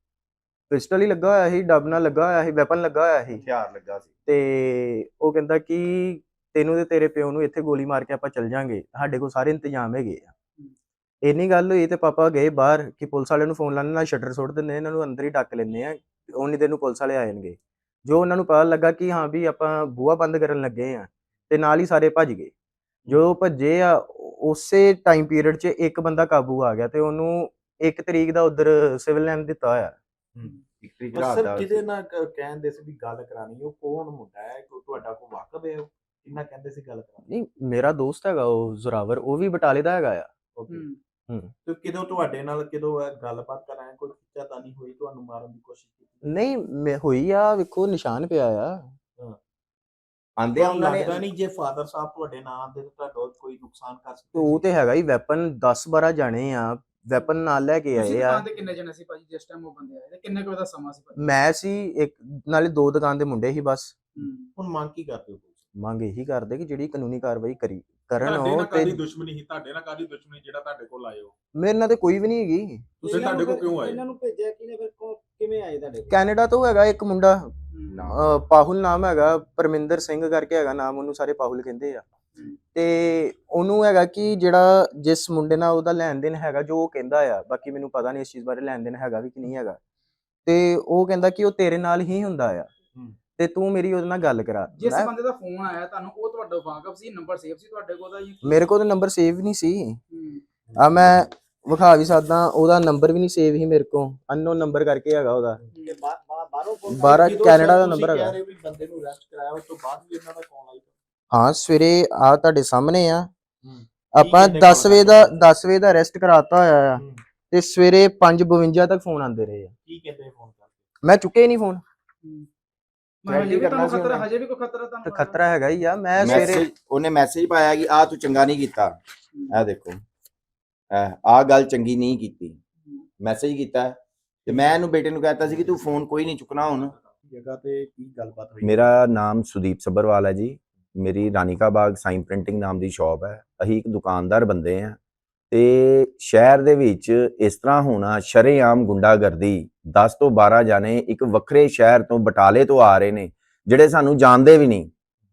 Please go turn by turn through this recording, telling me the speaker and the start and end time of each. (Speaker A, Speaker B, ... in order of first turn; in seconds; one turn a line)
Speaker A: 0.7-3.4
Speaker B: 3.5-4.0
Speaker A: 4.3-10.3
Speaker A: 11.2-22.5
Speaker A: 23.1-29.9
Speaker C: 30.8-31.8
Speaker B: 31.1-37.3
Speaker A: 37.3-40.3
Speaker B: 40.6-40.8
Speaker D: 40.7-40.9
Speaker B: 41.6-46.2
Speaker A: 46.2-48.9
Speaker C: 50.4-51.0
Speaker B: 50.5-54.6
Speaker A: 54.3-58.5
Speaker D: 58.0-61.3
Speaker A: 61.1-63.9
Speaker D: 64.2-64.5
Speaker B: 64.5-65.6
Speaker A: 65.8-69.0
Speaker E: 68.2-71.3
Speaker A: 71.5-72.9
Speaker F: 73.0-76.1
Speaker E: 73.0-74.0
Speaker A: 76.1-82.0
Speaker A: 82.7-89.8
Speaker A: 90.5-92.7
Speaker A: 93.4-95.1
Speaker D: 94.8-98.6
Speaker A: 98.4-100.0
Speaker D: 100.1-100.4
Speaker A: 100.8-105.6
Speaker F: 105.8-107.4
Speaker B: 106.9-110.9
Speaker A: 106.9-108.4
Speaker A: 111.3-113.3
Speaker B: 113.6-115.4
Speaker A: 114.1-119.7
Speaker B: 119.8-120.8
Speaker A: 121.0-121.8
Speaker D: 123.2-125.4
Speaker C: 123.3-124.3
Speaker A: 125.0-126.7
Speaker C: 126.2-129.0
Speaker C: 129.5-130.0
Speaker C: 130.9-132.6
Speaker C: 133.2-136.9
Speaker B: 137.0-138.8
Speaker C: 138.6-145.0
Speaker C: 145.5-154.9